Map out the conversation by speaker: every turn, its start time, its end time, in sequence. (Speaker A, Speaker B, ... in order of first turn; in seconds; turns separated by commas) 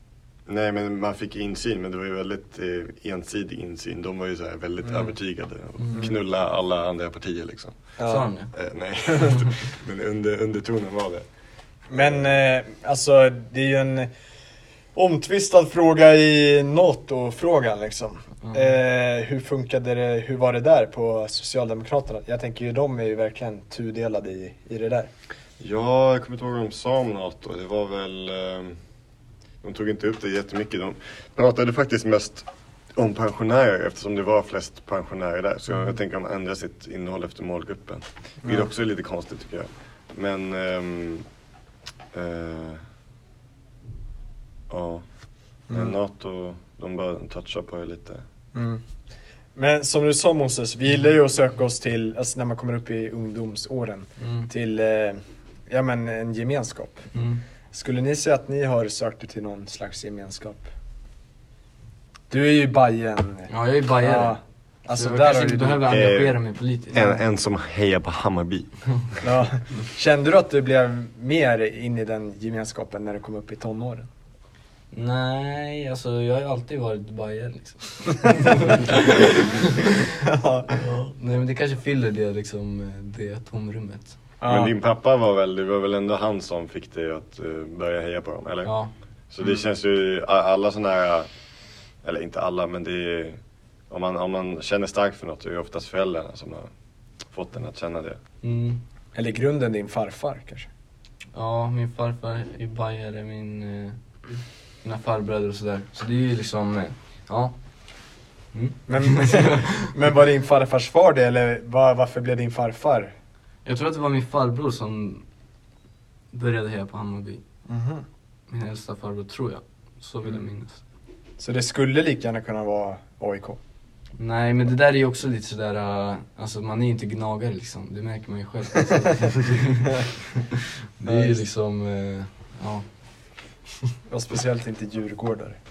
Speaker A: 0.5-7.8, Speaker B: 8.0-8.3, Speaker C: 8.1-8.5, Speaker A: 8.5-11.2, Speaker B: 11.9-14.1, Speaker A: 11.9-12.2, Speaker B: 14.9-25.1, Speaker A: 25.6-28.8, Speaker A: 29.6-41.3, Speaker A: 42.1-42.8, Speaker A: 44.7-45.0, Speaker A: 45.7-48.2, Speaker B: 48.5-48.8, Speaker B: 49.6-57.1, Speaker C: 54.2-54.5, Speaker C: 57.1-57.4, Speaker B: 57.7-60.7, Speaker B: 62.3-65.9, Speaker C: 63.5-67.2, Speaker A: 65.9-69.2, Speaker B: 69.2-74.1, Speaker C: 74.9-80.0, Speaker B: 78.7-79.3, Speaker B: 80.1-80.8, Speaker C: 80.7-84.2, Speaker B: 84.4-84.7, Speaker A: 84.5-88.8, Speaker C: 88.7-88.9, Speaker A: 89.3-91.3, Speaker A: 92.0-96.7, Speaker A: 97.3-98.2, Speaker C: 98.4-98.8, Speaker B: 99.2-100.7, Speaker C: 101.3-104.0, Speaker C: 104.8-107.6, Speaker C: 108.5-109.9, Speaker B: 108.9-113.1, Speaker C: 113.7-115.2, Speaker C: 116.3-117.4, Speaker B: 117.7-118.0, Speaker C: 118.5-120.8, Speaker B: 121.4-123.6, Speaker C: 124.2-132.8, Speaker B: 131.0-131.4, Speaker B: 134.1-135.6